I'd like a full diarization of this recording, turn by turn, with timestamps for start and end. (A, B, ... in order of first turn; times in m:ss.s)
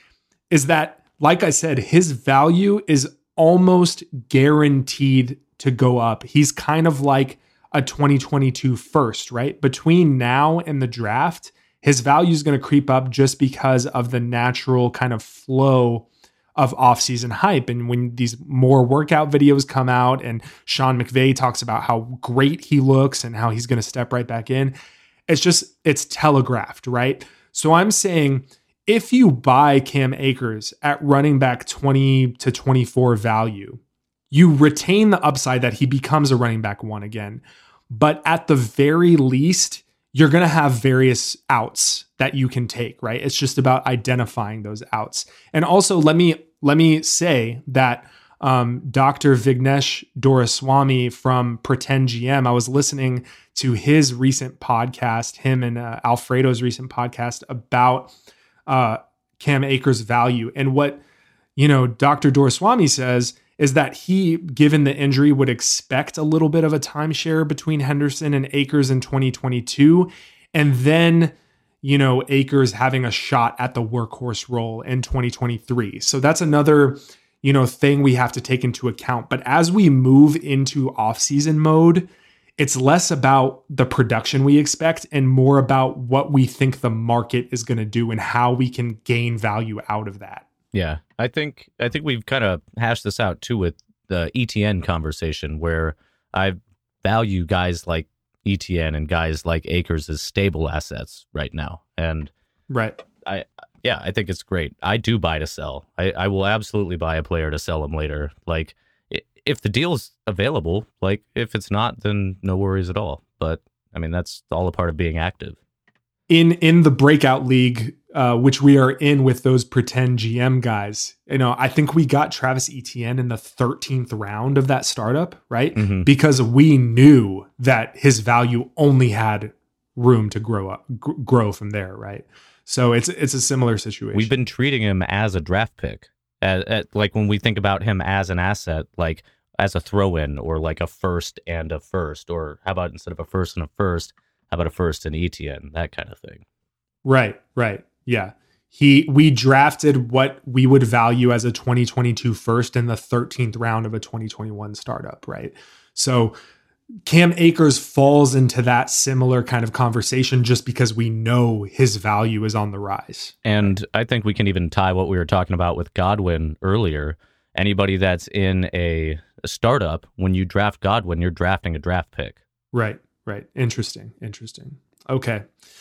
0:00.5-0:24.7 A
0:25.3-0:33.8 A
0:34.3-0:58.1 A
0:58.7-1:01.0 A
1:01.6-1:30.4 A
1:30.7-1:42.3 B
1:42.7-1:43.0 A
1:43.2-1:55.6 B
1:56.3-2:14.3 A
2:05.7-2:06.1 B
2:14.1-2:26.4 B
2:27.0-2:36.3 A
2:37.0-2:43.7 A
2:43.4-2:52.4 B
2:52.7-2:55.5 A